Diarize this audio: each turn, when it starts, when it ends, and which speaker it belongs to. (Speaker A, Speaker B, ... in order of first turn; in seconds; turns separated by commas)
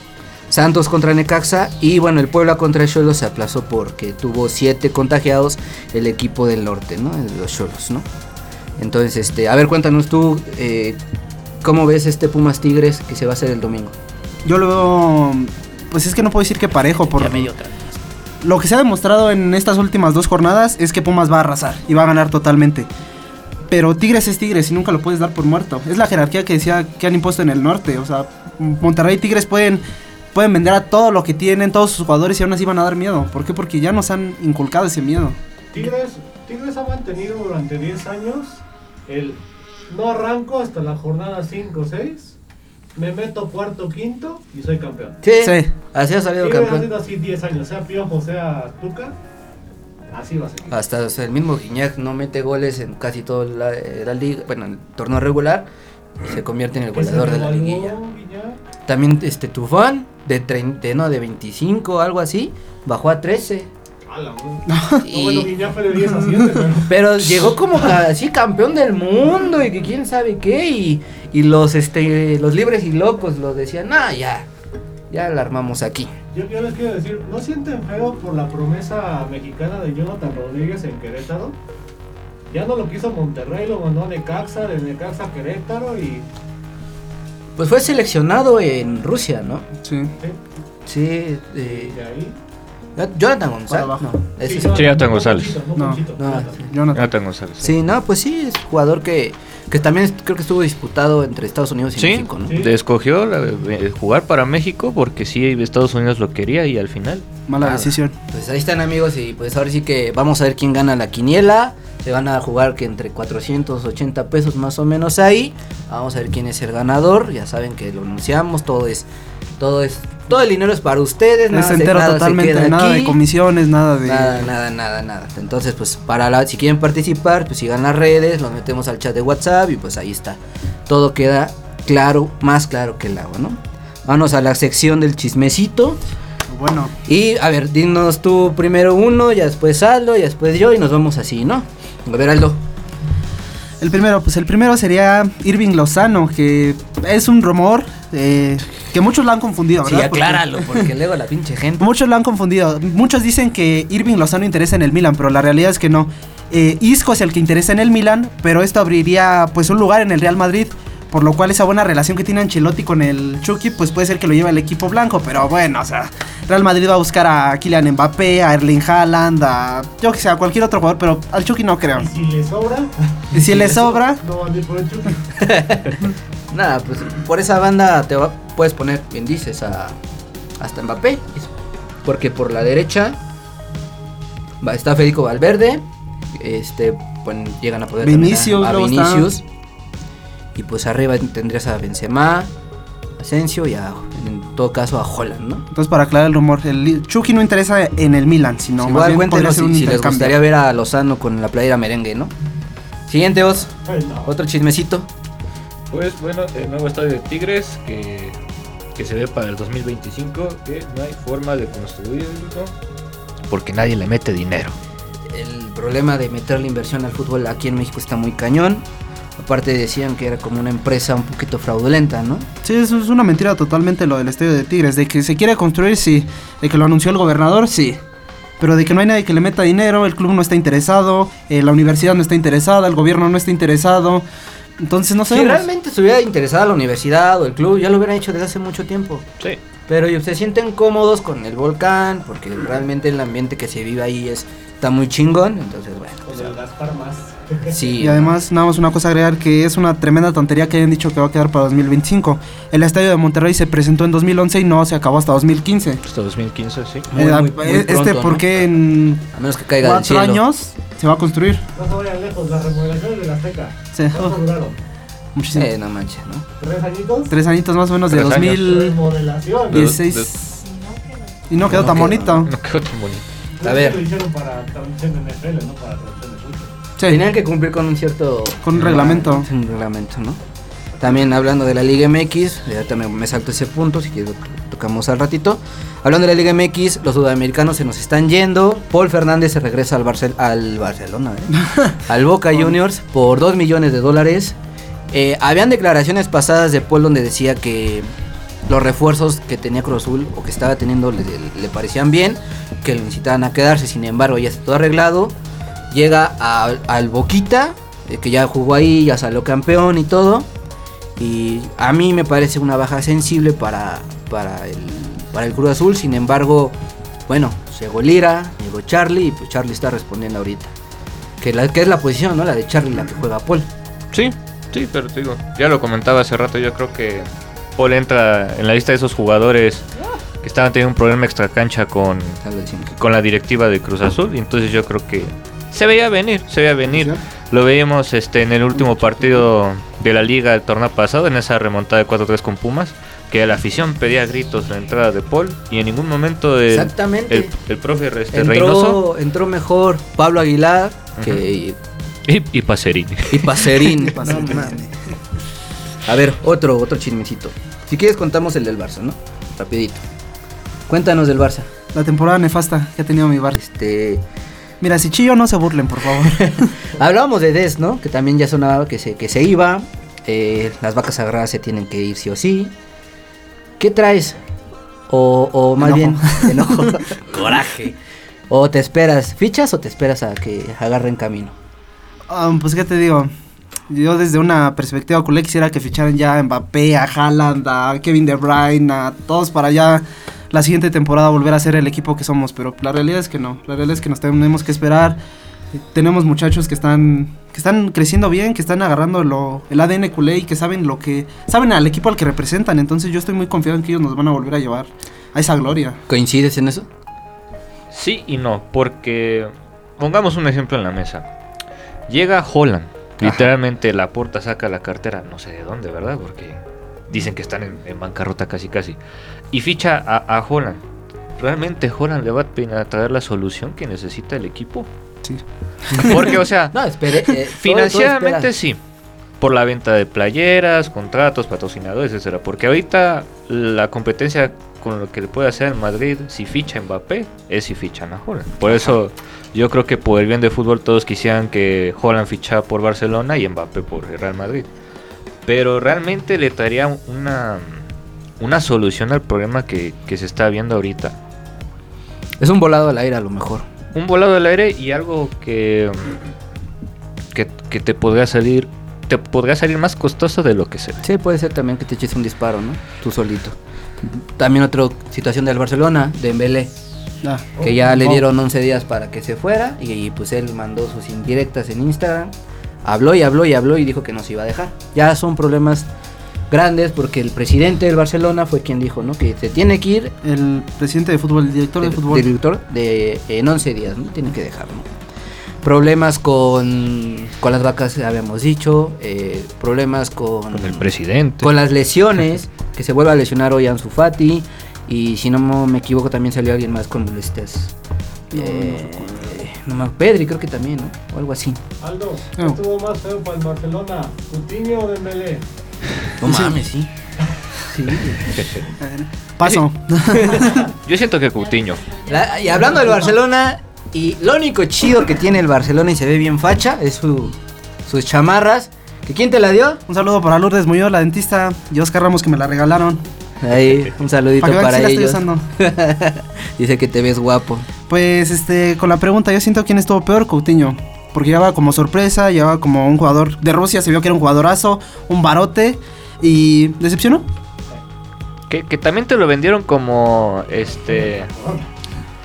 Speaker A: 0.5-8.1, Speaker A: 8.8-11.0, Speaker A: 11.6-13.9, Speaker B: 14.4-17.5, Speaker A: 17.1-18.0, Speaker B: 18.4-22.9, Speaker B: 23.7-35.4, Speaker C: 35.7-42.4, Speaker C: 42.9-45.2, Speaker A: 45.2-46.9, Speaker B: 45.4-45.7, Speaker C: 46.4-49.1, Speaker C: 50.1-50.8, Speaker A: 50.7-55.7, Speaker A: 56.2-58.0, Speaker C: 56.9-58.6, Speaker A: 58.9-63.7, Speaker C: 64.0-67.2, Speaker B: 64.7-65.0, Speaker A: 65.0-65.5, Speaker B: 65.9-66.7, Speaker A: 66.9-74.5, Speaker A: 75.1-76.1, Speaker C: 76.3-81.5, Speaker C: 82.5-86.2, Speaker A: 87.6-89.7, Speaker B: 89.8-90.1, Speaker A: 90.8-92.0, Speaker C: 91.6-92.3, Speaker A: 93.0-94.9, Speaker B: 93.7-94.1, Speaker C: 94.4-96.7, Speaker D: 94.7-95.6, Speaker B: 95.7-96.0, Speaker A: 96.2-96.7, Speaker B: 96.6-97.1, Speaker D: 96.9-97.7, Speaker A: 97.6-102.5, Speaker D: 102.0-107.2, Speaker C: 102.5-102.7, Speaker B: 107.5-108.1, Speaker A: 107.6-119.0, Speaker A: 119.6-123.2, Speaker B: 121.5-124.5, Speaker A: 124.0-136.0, Speaker B: 136.5-136.9, Speaker A: 137.1-142.6, Speaker B: 143.8-150.9, Speaker A: 149.8-151.9, Speaker B: 151.8-172.1, Speaker C: 171.9-173.3, Speaker A: 173.3-174.0, Speaker B: 173.3-174.2, Speaker C: 174.2-175.2, Speaker A: 175.3-180.0, Speaker A: 180.6-181.5, Speaker A: 182.0-183.2, Speaker A: 184.6-189.4, Speaker B: 188.0-189.3, Speaker A: 190.6-192.5, Speaker A: 193.2-195.6, Speaker B: 195.7-200.4, Speaker A: 198.8-202.3, Speaker A: 203.1-203.7, Speaker C: 203.8-204.3, Speaker A: 204.2-205.1, Speaker D: 205.9-208.3, Speaker D: 208.9-212.7, Speaker D: 213.5-214.8, Speaker A: 215.3-218.8, Speaker A: 219.4-222.5, Speaker B: 222.6-228.0, Speaker B: 228.6-234.2, Speaker B: 234.8-235.7, Speaker A: 235.3-239.2, Speaker A: 239.9-246.5, Speaker C: 246.2-247.9, Speaker A: 247.7-248.4, Speaker B: 248.0-256.0, Speaker D: 256.0-257.1, Speaker A: 257.1-258.6, Speaker B: 257.1-259.2, Speaker A: 259.3-260.4, Speaker B: 259.8-261.6, Speaker C: 261.7-264.8, Speaker B: 263.9-264.4, Speaker B: 265.3-265.7, Speaker A: 265.5-266.4, Speaker C: 266.6-267.3, Speaker B: 267.3-268.9, Speaker D: 268.1-268.8, Speaker C: 268.5-269.9, Speaker D: 269.7-270.4, Speaker B: 269.7-270.6, Speaker B: 271.5-272.5, Speaker A: 271.7-272.4, Speaker D: 271.7-273.2, Speaker C: 273.6-276.7, Speaker A: 273.6-274.0, Speaker B: 277.0-277.2, Speaker A: 277.1-280.4, Speaker B: 278.6-279.5, Speaker A: 281.0-294.6, Speaker B: 291.6-291.9, Speaker A: 295.1-298.1, Speaker A: 298.7-305.3, Speaker A: 305.9-310.5, Speaker A: 311.2-316.7, Speaker A: 317.3-320.7, Speaker A: 321.4-323.7, Speaker D: 324.1-329.8, Speaker D: 330.4-332.4, Speaker A: 332.4-332.9, Speaker D: 332.9-349.0, Speaker A: 346.7-347.5, Speaker A: 348.3-351.8, Speaker D: 351.2-351.4, Speaker D: 352.2-354.0, Speaker A: 353.3-354.7, Speaker B: 354.0-354.9, Speaker A: 356.1-360.0, Speaker A: 360.9-361.7, Speaker B: 361.9-363.6, Speaker A: 363.6-364.2, Speaker B: 364.8-366.7, Speaker A: 366.3-372.7, Speaker A: 373.8-374.4, Speaker A: 375.1-378.0, Speaker B: 375.8-377.0, Speaker A: 378.5-381.5, Speaker B: 382.3-383.3, Speaker B: 383.9-395.2, Speaker B: 395.7-406.0, Speaker A: 406.1-406.9, Speaker D: 407.9-411.2, Speaker D: 412.1-416.6, Speaker A: 413.2-413.5, Speaker D: 417.1-419.0, Speaker D: 419.5-420.8, Speaker D: 421.4-424.9, Speaker B: 425.2-426.4, Speaker D: 426.0-426.7, Speaker A: 426.7-428.5, Speaker D: 427.6-428.8, Speaker D: 429.4-444.7, Speaker A: 438.6-439.0, Speaker D: 445.4-447.8, Speaker D: 448.4-451.1, Speaker A: 452.4-453.6, Speaker D: 453.9-456.2, Speaker D: 457.3-461.0, Speaker A: 461.0-463.6, Speaker A: 464.4-466.7, Speaker B: 467.2-468.2, Speaker A: 467.6-472.3, Speaker A: 472.8-475.9, Speaker A: 476.5-480.1, Speaker B: 480.2-482.3, Speaker A: 481.8-484.9, Speaker A: 485.6-490.9, Speaker D: 490.5-491.5, Speaker A: 491.4-497.7, Speaker A: 498.3-501.6, Speaker B: 498.3-499.3, Speaker C: 501.8-505.4, Speaker A: 506.2-506.9, Speaker B: 506.2-506.6, Speaker A: 507.6-508.5, Speaker B: 508.8-510.6, Speaker A: 510.1-510.4, Speaker D: 510.8-511.9, Speaker A: 512.0-517.4, Speaker A: 517.9-519.8, Speaker B: 519.9-523.0, Speaker A: 523.4-527.6, Speaker B: 524.4-525.4, Speaker B: 527.9-537.3, Speaker D: 538.5-541.3, Speaker C: 540.6-541.7